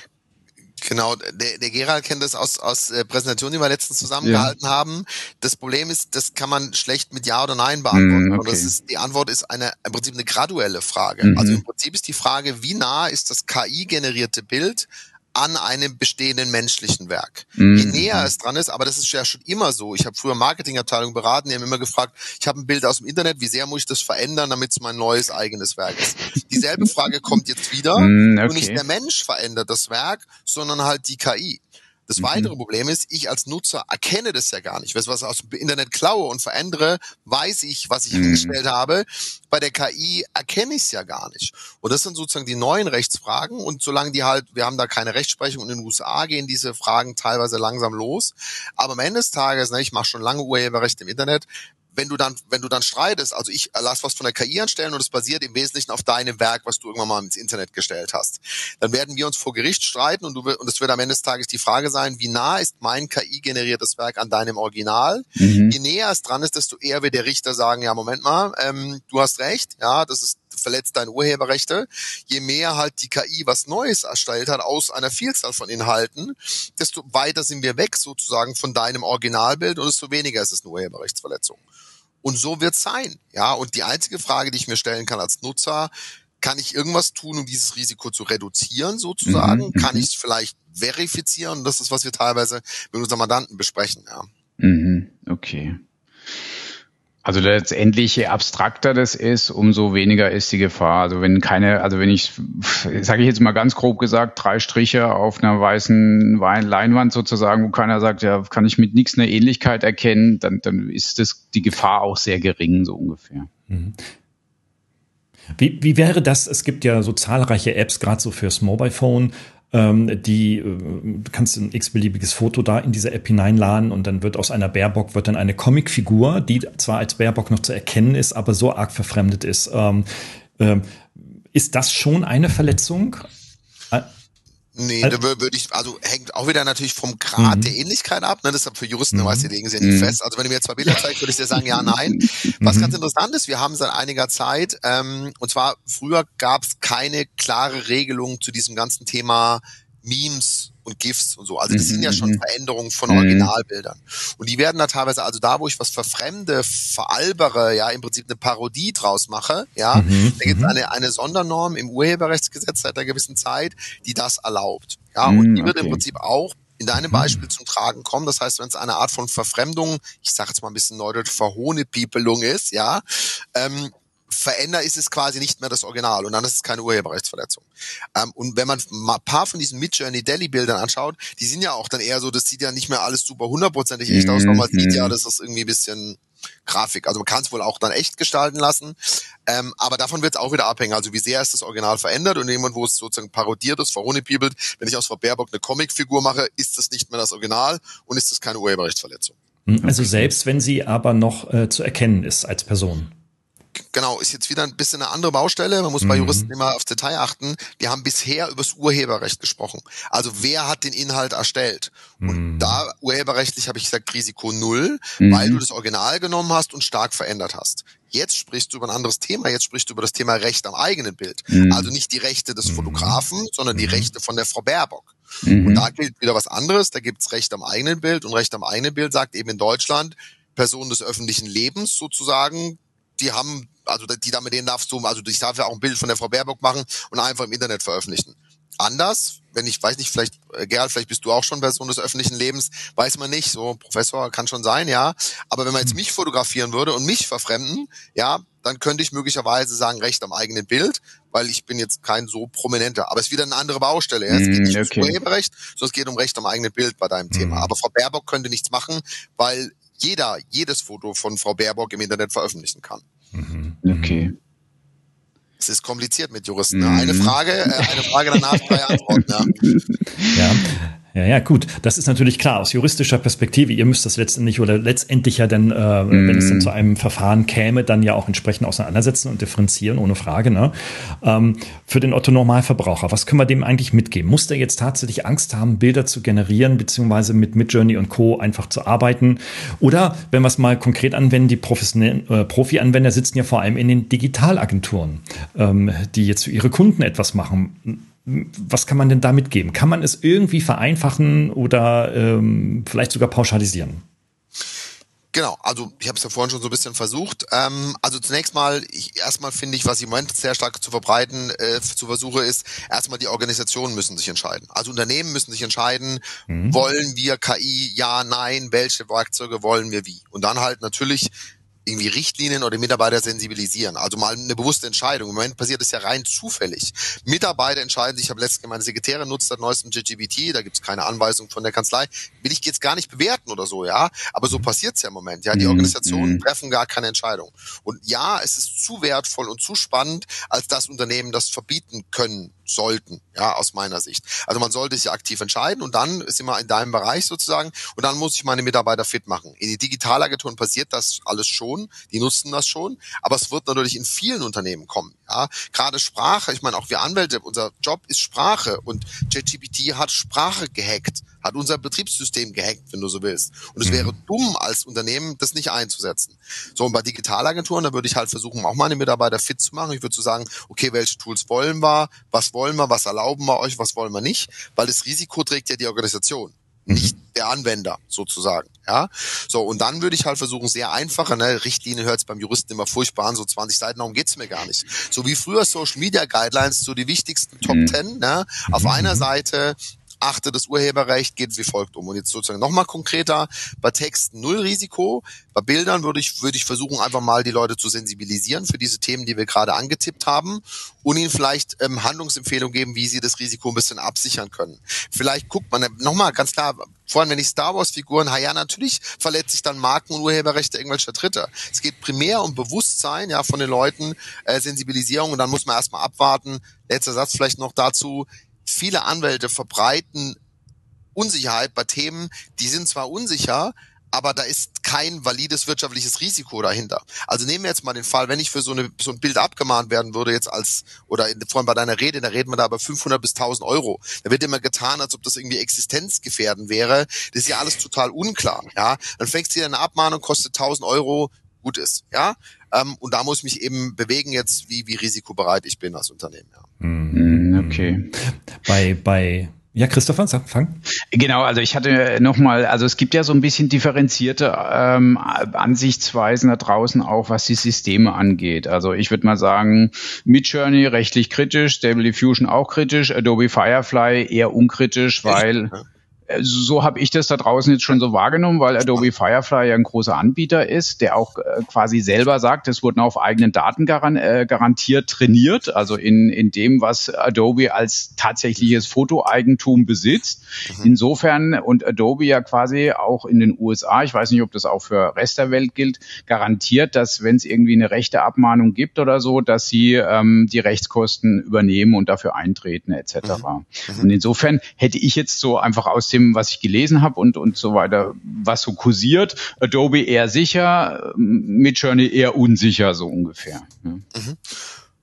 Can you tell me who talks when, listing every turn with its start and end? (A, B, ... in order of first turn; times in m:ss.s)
0:00.8-1:21.6 A
0:04.2-0:04.5 B
0:07.9-0:08.7 B
0:11.2-0:11.6 B
0:17.6-0:18.3 B
0:28.0-0:28.8 B
0:32.2-0:32.5 B
0:38.1-0:38.6 B
1:05.4-1:05.8 B
1:22.2-1:34.3 A
1:29.3-1:30.1 B
1:34.6-1:35.8 B
1:37.2-1:53.5 B
1:53.7-1:54.0 C
1:55.6-2:13.3 C
2:14.8-3:19.4 A
2:17.4-2:17.7 C
2:19.1-2:19.5 C
2:19.8-2:20.2 B
2:21.8-2:22.3 B
2:22.6-2:23.0 C
2:31.7-2:32.4 B
2:33.1-2:33.5 B
2:39.9-2:40.8 C
2:45.2-2:46.0 B
2:47.0-2:47.4 C
3:04.1-3:05.1 B
3:19.7-3:23.1 C
3:19.8-3:20.2 B
3:23.9-4:23.0 A
3:26.0-3:26.5 C
3:32.2-3:32.8 C
3:35.2-3:35.6 B
3:41.5-3:41.9 B
3:42.7-3:43.2 C
3:43.7-3:44.1 C
3:45.4-3:45.9 B
4:14.3-4:15.1 B
4:17.3-4:17.7 C
4:23.3-4:24.2 C
4:23.8-4:24.3 B
4:25.6-4:29.7 A
4:26.7-4:30.5 B
4:30.4-5:04.0 C
4:36.1-4:36.7 B
5:05.3-5:21.3 A
5:16.5-5:16.8 C
5:21.8-7:00.4 A
5:35.5-5:36.4 B
6:03.8-6:04.2 C
6:27.6-6:28.0 B
6:28.7-6:29.2 C
7:01.2-7:26.6 A
7:26.8-7:30.8 C
7:27.1-7:28.1 B
7:31.1-7:45.7 B
7:45.3-7:45.8 A
7:46.3-8:24.0 B
8:13.2-8:14.1 A
8:24.1-8:24.6 A